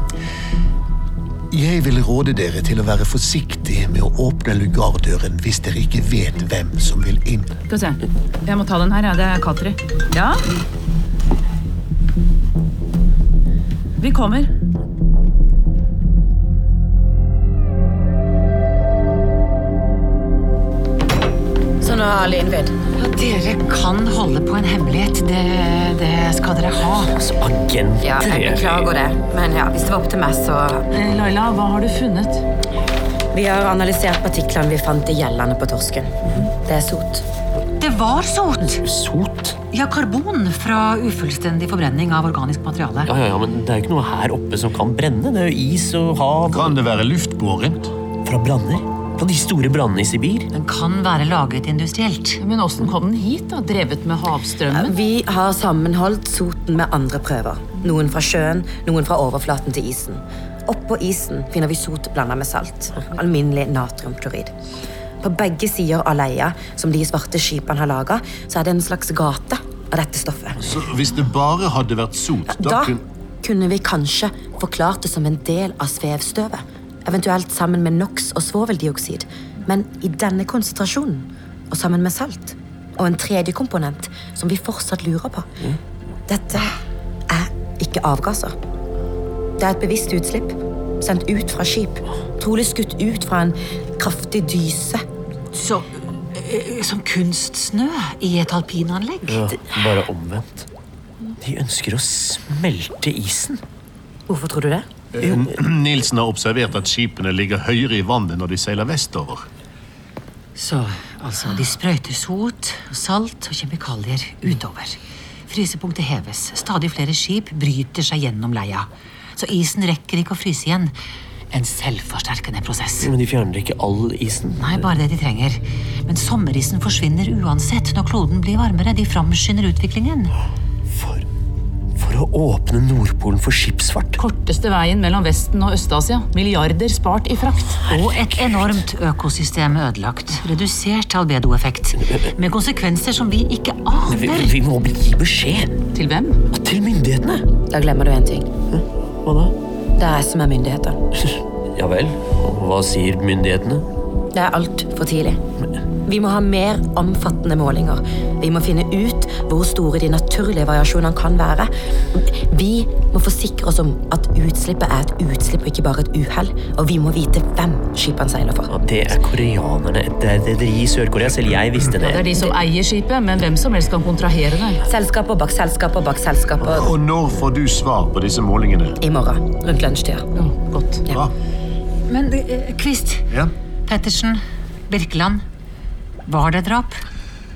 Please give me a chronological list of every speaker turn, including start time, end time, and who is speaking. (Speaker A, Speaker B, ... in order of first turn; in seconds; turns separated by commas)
Speaker A: 1.5-7.6, Speaker B: 7.7-10.4, Speaker B: 14.0-14.5, Speaker C: 21.8-22.8, Speaker D: 23.0-27.1, Speaker E: 27.1-28.9, Speaker C: 28.0-30.9, Speaker B: 30.9-32.4, Speaker C: 33.3-37.2, Speaker D: 37.8-38.8, Speaker E: 38.8-39.6, Speaker D: 39.7-43.1, Speaker E: 43.1-46.7, Speaker A: 46.5-47.9, Speaker E: 48.2-50.5, Speaker D: 50.5-52.4, Speaker B: 52.4-54.9, Speaker C: 54.7-64.5, Speaker C: 65.2-70.6, Speaker A: 70.6-73.0, Speaker C: 72.5-85.5, Speaker C: 86.3-86.8, Speaker C: 87.3-88.5, Speaker C: 89.6-95.0, Speaker D: 95.5-99.6, Speaker E: 99.3-100.7, Speaker E: 101.4-103.6, Speaker C: 104.3-104.9, Speaker A: 105.1-109.5, Speaker D: 110.6-121.0, Speaker D: 121.5-123.1, Speaker E: 123.0-124.9, Speaker D: 124.6-130.3, Speaker E: 130.9-131.2, Speaker E: 132.0-134.2, Speaker B: 134.2-137.8, Speaker D: 137.9-144.6, Speaker E: 137.9-138.7, Speaker E: 144.1-145.7, Speaker B: 145.9-146.4, Speaker E: 146.5-147.5, Speaker C: 147.7-148.5, Speaker E: 148.7-149.5, Speaker C: 150.0-151.0, Speaker E: 151.8-153.9, Speaker C: 154.3-155.4, Speaker C: 156.1-168.7, Speaker E: 168.7-172.3, Speaker B: 172.0-174.8, Speaker C: 174.9-176.9, Speaker A: 176.7-179.0, Speaker C: 179.0-180.3, Speaker B: 180.4-181.0, Speaker D: 182.1-183.3, Speaker D: 183.9-185.4, Speaker D: 186.3-187.0